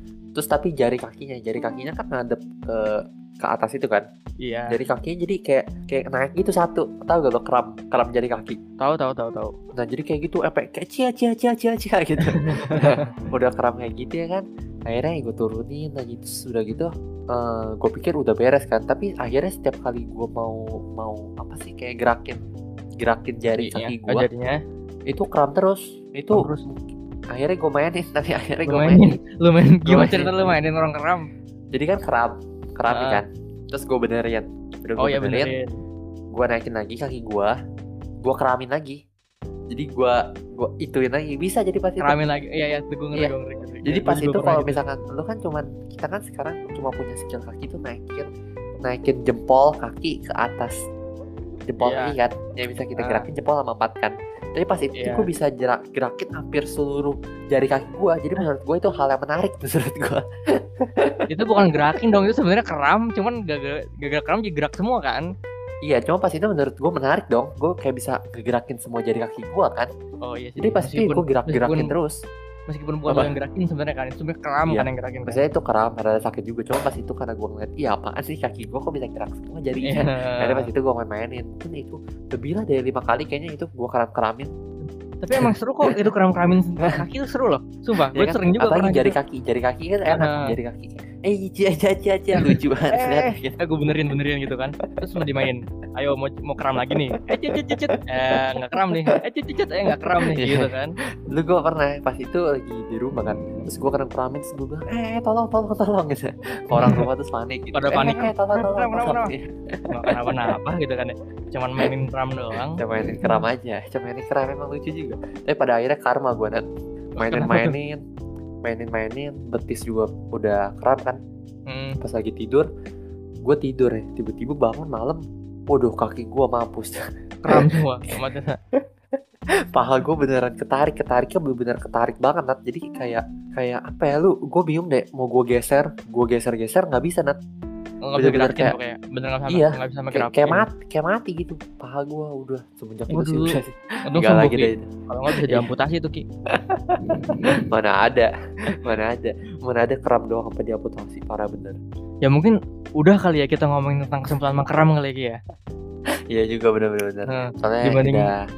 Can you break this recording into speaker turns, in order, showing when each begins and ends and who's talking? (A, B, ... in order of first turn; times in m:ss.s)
0:00.4-0:04.1 A
0:04.4-0:04.8 B
0:04.7-0:08.6 A
0:08.8-0:09.5 B
0:09.8-0:22.4 A
0:12.2-0:13.1 B
0:23.0-0:24.3 A
0:23.6-0:24.6 B
0:25.1-0:26.8 A
0:26.3-0:26.6 B
0:27.3-0:29.1 A
0:28.7-0:31.3 B
0:29.9-0:30.5 A
0:31.7-0:35.5 A
0:32.9-0:33.2 B
0:35.0-0:35.8 B
0:36.3-0:37.5 A
0:38.2-0:39.0 A
0:39.7-0:42.2 A
0:42.0-0:44.8 B
0:43.8-0:48.3 A
0:48.8-0:50.8 A
0:51.7-1:02.0 A
0:51.8-0:52.2 B
0:53.0-0:53.3 B
0:55.0-0:55.3 B
1:01.3-1:05.3 B
1:05.8-1:09.9 A
1:10.2-1:12.0 B
1:10.6-1:12.2 A
1:12.7-1:15.4 B
1:14.7-1:24.5 A
1:19.8-1:20.7 B
1:25.2-1:29.2 B
1:25.4-1:26.0 A
1:28.1-1:33.6 A
1:30.1-1:30.6 B
1:32.4-1:40.9 B
1:37.3-1:39.0 A
1:40.1-1:40.7 A
1:41.3-1:50.4 A
1:46.8-1:47.1 B
1:47.7-1:49.3 B
1:49.9-1:53.4 B
1:52.8-1:56.7 A
1:57.2-1:57.7 B
1:57.2-1:58.0 A
1:58.6-2:01.2 A
2:01.7-2:02.0 B
2:02.0-2:02.7 A
2:03.4-2:07.8 A
2:07.4-2:08.6 B
2:09.7-2:17.4 A
2:18.1-2:20.7 B
2:18.2-2:18.8 A
2:19.5-2:25.7 A
2:23.1-2:26.2 B
2:26.5-2:31.8 A
2:27.1-2:27.6 B
2:32.2-2:35.4 B
2:36.3-2:38.4 A
2:37.3-2:38.3 B